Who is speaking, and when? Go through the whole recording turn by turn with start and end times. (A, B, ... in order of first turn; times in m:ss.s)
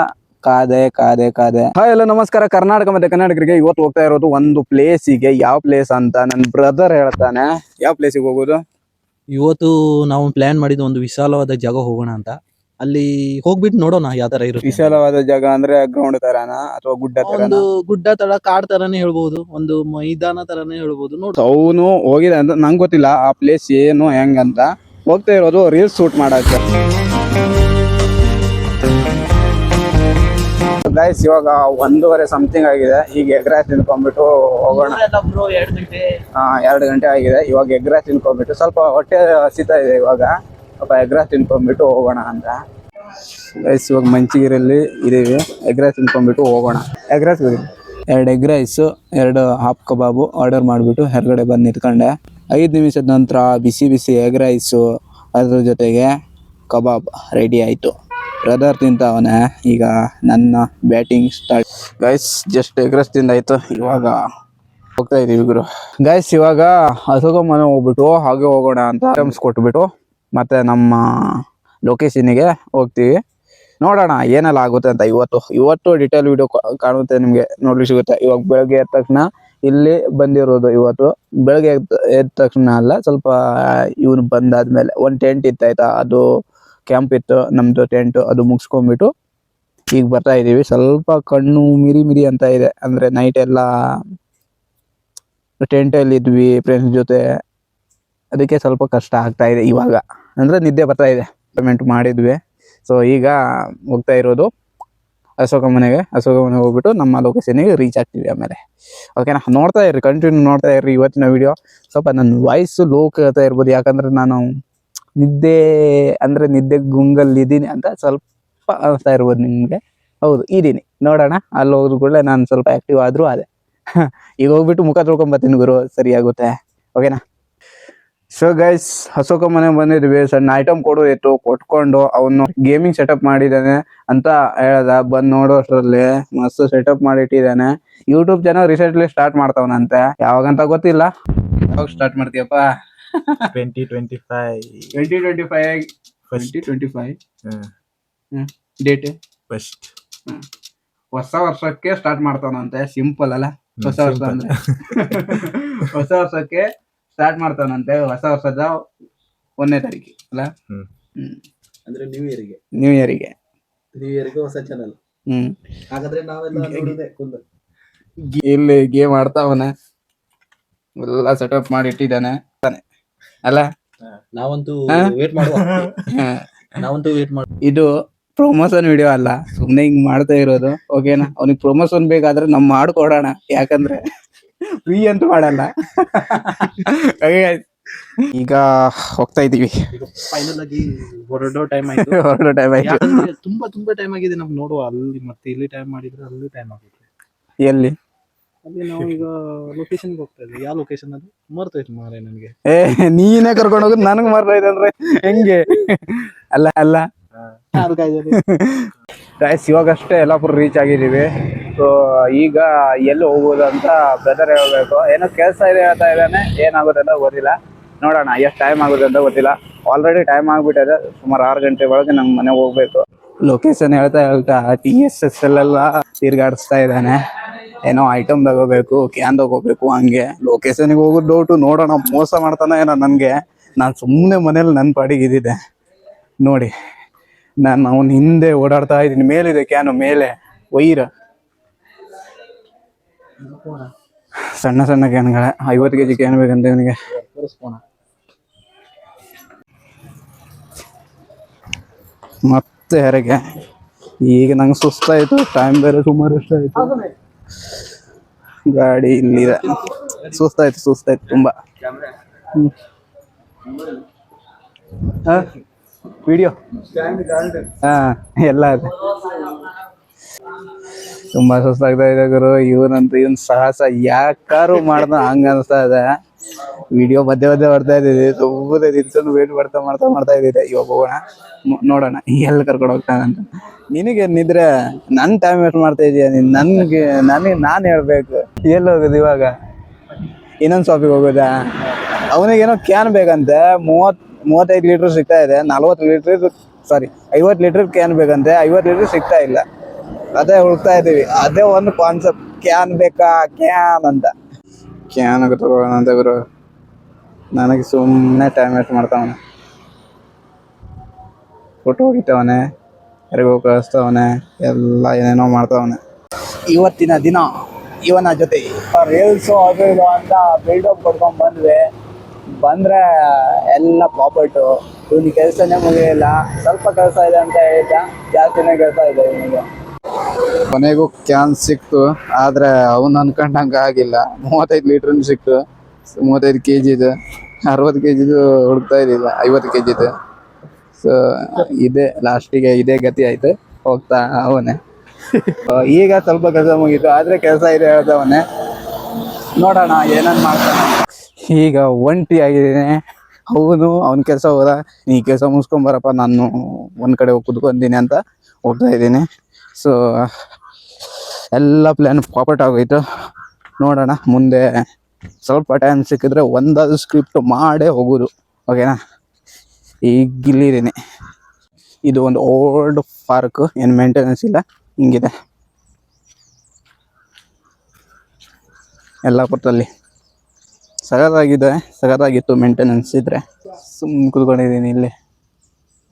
0:00.4-0:08.6 A
0:09.3-0:15.0 B
0:14.6-0:17.6 A
0:17.2-0:21.4 B
0:21.4-0:26.7 A
0:30.8-0:35.0 A
0:34.7-0:36.0 B
0:36.4-0:42.6 A
0:43.6-0:54.8 A
0:55.3-0:56.1 A
0:56.7-0:57.9 A
0:58.4-1:04.2 A
1:05.0-1:11.0 A
1:11.8-1:13.1 A
1:13.8-1:26.2 A
1:26.8-1:29.1 A
1:29.9-1:33.6 A
1:35.6-1:37.2 A
1:38.3-1:43.3 A
1:43.9-1:44.5 A
1:45.4-1:48.6 A
1:49.2-1:54.4 A
1:55.2-2:03.4 A
2:04.0-2:07.2 A
2:08.3-2:21.1 A
2:21.7-2:23.5 A
2:23.5-2:24.9 C
2:24.9-2:27.2 A
2:26.3-2:26.7 C
2:27.4-2:27.7 C
2:28.3-2:29.2 A
2:29.5-2:29.9 C
2:31.1-2:38.8 A
2:33.8-2:35.5 C
2:39.6-2:40.5 A
2:41.9-2:42.6 B
2:42.8-2:43.3 A
2:44.0-2:45.0 B
2:45.3-2:45.5 A
2:45.9-2:47.4 B
2:46.6-2:46.9 A
2:48.3-2:49.7 A
2:51.0-2:52.8 A
2:54.4-2:56.0 B
2:54.9-2:55.1 A
2:56.1-2:56.4 A
2:56.8-2:57.5 B
2:57.6-3:04.0 A
3:04.8-3:07.6 A
3:08.2-3:09.7 A
3:09.9-3:12.2 B
3:11.9-3:13.2 A
3:12.8-3:17.1 B
3:17.6-3:17.9 A
3:18.6-3:22.5 B
3:22.7-3:27.0 A
3:27.7-3:28.4 B
3:28.3-3:55.6 A
3:56.4-3:56.7 A
3:57.6-4:01.1 A
4:03.4-4:03.9 B
4:04.6-4:06.9 A
4:07.2-4:07.8 B
4:12.4-4:13.4 A
4:14.2-4:17.0 A
4:18.7-4:21.5 A
4:22.4-4:22.7 A
4:25.1-4:25.5 A
4:26.2-4:26.5 A
4:27.1-4:29.7 A
4:31.3-4:36.0 A
4:36.9-4:49.5 A
4:50.6-4:59.6 A
5:00.3-5:04.3 A
5:05.1-5:06.4 A
5:07.5-5:09.4 A
5:11.8-5:12.6 A
5:13.3-5:16.0 A
5:16.7-5:17.5 A
5:18.0-5:21.8 A
5:22.6-5:29.6 A
5:30.7-5:35.6 A
5:36.2-5:37.1 A
5:37.7-5:40.1 A
5:41.0-5:44.8 A
5:45.4-5:48.4 A
5:49.6-5:53.0 A
5:53.5-5:59.2 A
5:59.8-6:00.3 A
6:01.5-6:03.0 A
6:03.8-6:04.6 A
6:05.4-6:09.0 A
6:10.1-6:10.9 A
6:12.0-6:15.3 A
6:19.2-6:19.9 A
6:21.1-6:25.1 A